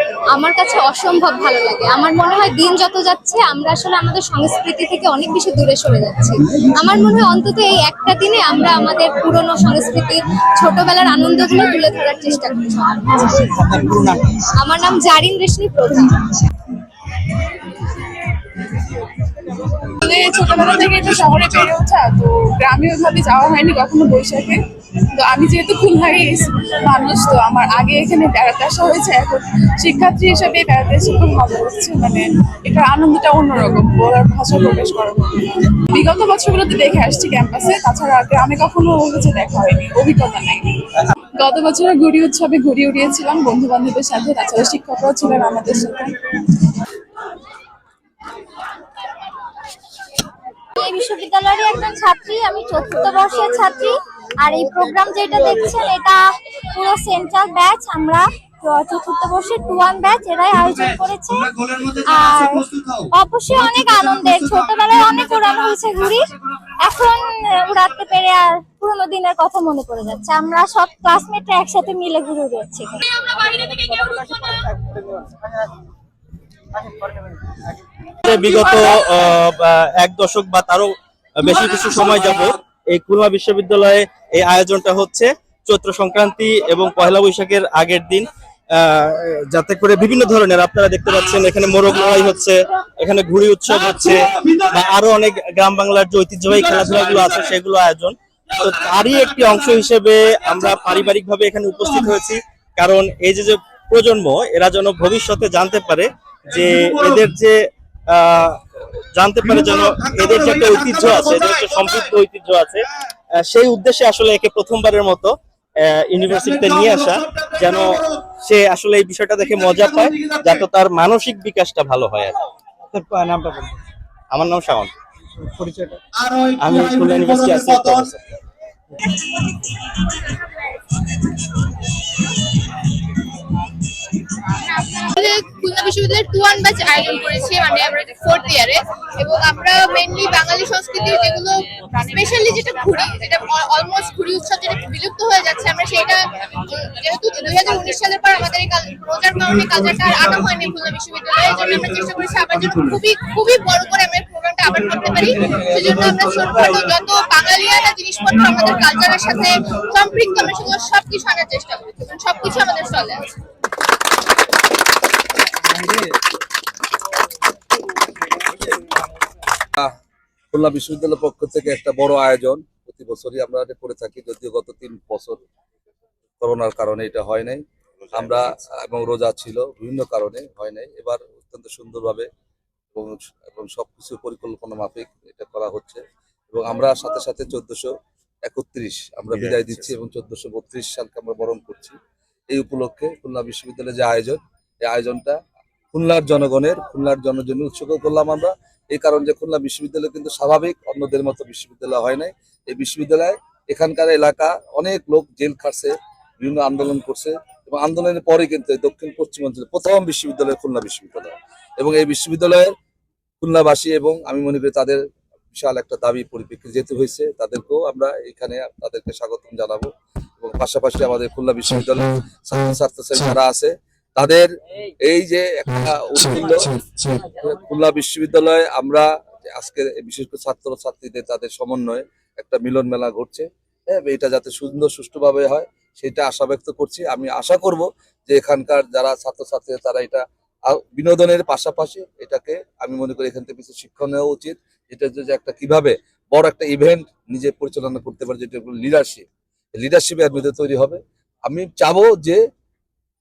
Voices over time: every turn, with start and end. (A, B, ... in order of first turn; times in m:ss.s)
0:00.3-0:16.2 A
0:20.0-0:24.6 B
0:25.1-0:40.8 B
0:41.4-0:46.6 B
0:50.8-1:13.4 C
1:13.6-1:13.9 D
1:14.8-1:15.2 D
1:18.2-1:48.6 E
1:49.1-2:02.4 E
2:02.9-2:03.2 E
2:03.0-2:03.7 D
2:04.3-2:04.9 E
2:05.4-2:06.4 D
2:06.6-2:08.2 E
2:14.5-2:43.3 F
2:50.5-2:55.4 G
2:56.4-3:02.3 G
2:58.1-2:58.5 D
3:02.9-3:07.9 G
3:08.4-3:12.0 G
3:09.4-3:09.8 D
3:12.5-3:15.4 G
3:15.9-3:32.7 G
3:33.4-3:35.0 G
3:35.5-3:44.5 G
3:45.0-4:09.2 G
4:09.8-4:12.4 G